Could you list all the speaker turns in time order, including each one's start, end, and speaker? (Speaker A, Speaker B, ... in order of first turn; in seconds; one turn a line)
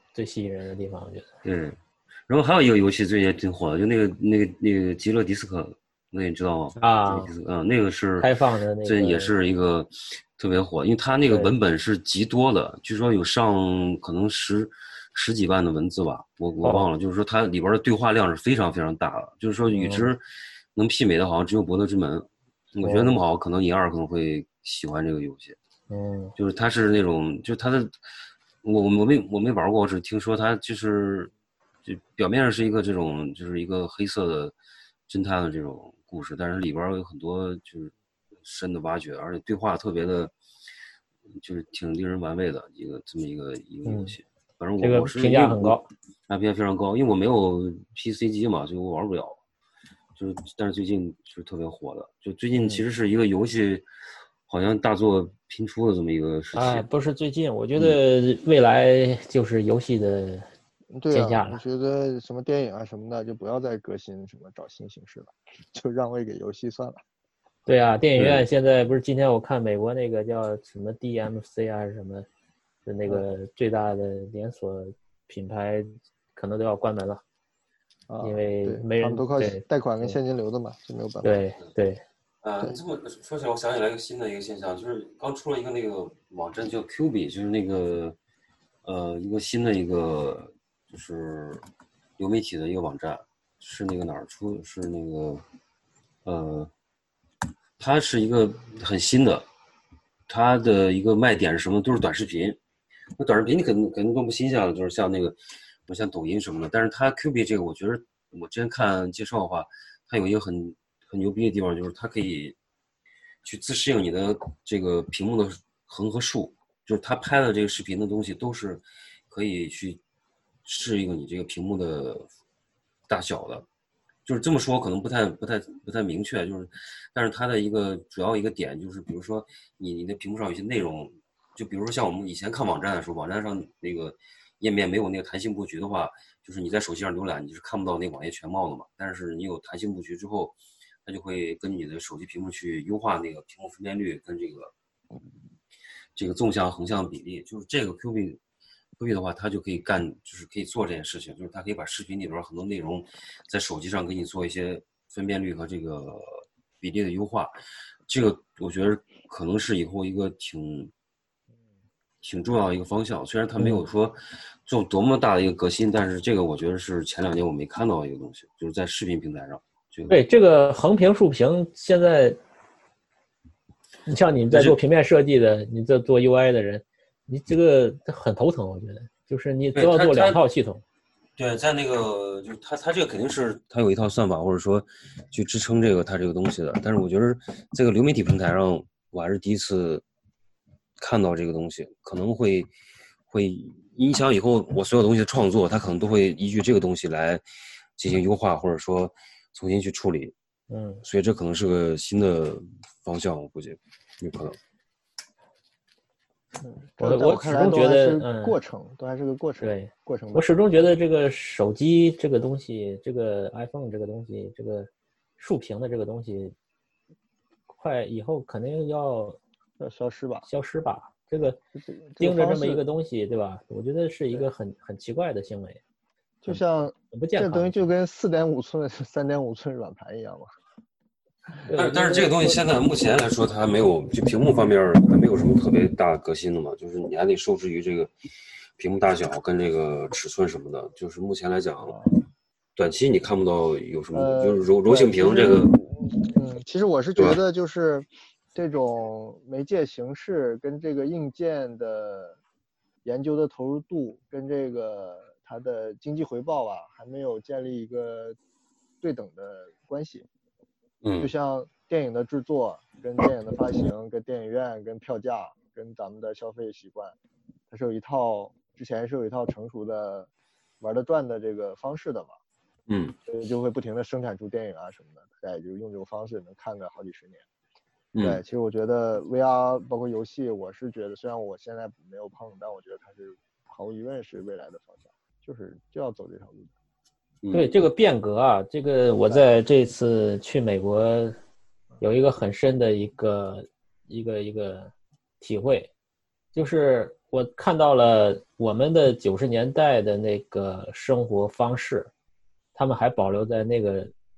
Speaker A: 0.1-1.3
Speaker B: 1.4-8.3
Speaker A: 6.8-7.3
Speaker A: 8.2-9.3
Speaker B: 8.8-20.2
Speaker A: 11.3-11.5
Speaker A: 19.7-20.1
Speaker B: 20.8-25.6
Speaker A: 22.8-23.2
Speaker A: 25.9-26.3
Speaker B: 26.4-28.0
Speaker B: 28.6-31.3
Speaker B: 31.9-34.5
Speaker B: 35.1-40.3
Speaker B: 41.4-49.4
Speaker A: 43.9-44.1
Speaker A: 44.8-45.9
Speaker B: 50.2-53.9
Speaker B: 54.5-56.9
Speaker A: 56.5-60.5
Speaker C: 60.9-67.0
Speaker A: 61.1-61.6
Speaker A: 67.7-72.3
Speaker B: 68.2-68.5
Speaker A: 72.9-77.2
Speaker C: 78.1-81.3
Speaker A: 78.2-80.2
Speaker A: 81.2-82.0
Speaker B: 82.4-88.2
Speaker B: 88.8-91.6
Speaker B: 92.2-95.4
Speaker B: 96.2-96.7
Speaker B: 97.8-99.5
Speaker B: 100.3-102.6
Speaker B: 103.2-112.6
Speaker B: 113.4-120.0
Speaker B: 120.7-122.3
Speaker B: 123.1-123.7
Speaker B: 124.3-144.7
Speaker B: 146.2-148.4
Speaker B: 149.0-157.5
Speaker B: 158.1-160.9
Speaker B: 162.2-170.2
Speaker A: 170.1-172.4
Speaker A: 174.1-180.8
Speaker B: 174.5-174.8
Speaker B: 179.8-180.4
Speaker B: 181.4-190.0
Speaker B: 191.0-192.7
Speaker B: 193.3-197.4
Speaker B: 198.0-200.3
Speaker A: 200.7-201.0
Speaker B: 201.0-204.6
Speaker C: 206.6-210.5
Speaker A: 207.0-208.6
Speaker A: 209.6-216.5
Speaker A: 217.7-219.4
Speaker C: 219.8-220.5
Speaker A: 220.5-221.6
Speaker C: 221.8-222.8
Speaker A: 222.2-225.8
Speaker C: 226.4-230.5
Speaker A: 226.5-227.8
Speaker A: 231.7-232.6
Speaker B: 231.7-238.1
Speaker B: 238.8-242.0
Speaker C: 241.8-242.1
Speaker B: 242.8-245.9
Speaker C: 244.1-252.4
Speaker C: 253.1-258.4
Speaker C: 259.0-260.3
Speaker B: 261.0-261.3
Speaker C: 261.2-267.1
Speaker C: 267.7-270.3
Speaker C: 270.8-272.4
Speaker B: 272.9-273.2
Speaker C: 273.3-277.4
Speaker B: 278.1-278.4
Speaker C: 278.2-286.7
Speaker B: 287.4-287.9
Speaker A: 287.5-291.4
Speaker A: 292.0-295.9
Speaker A: 296.5-302.1
Speaker A: 302.8-304.1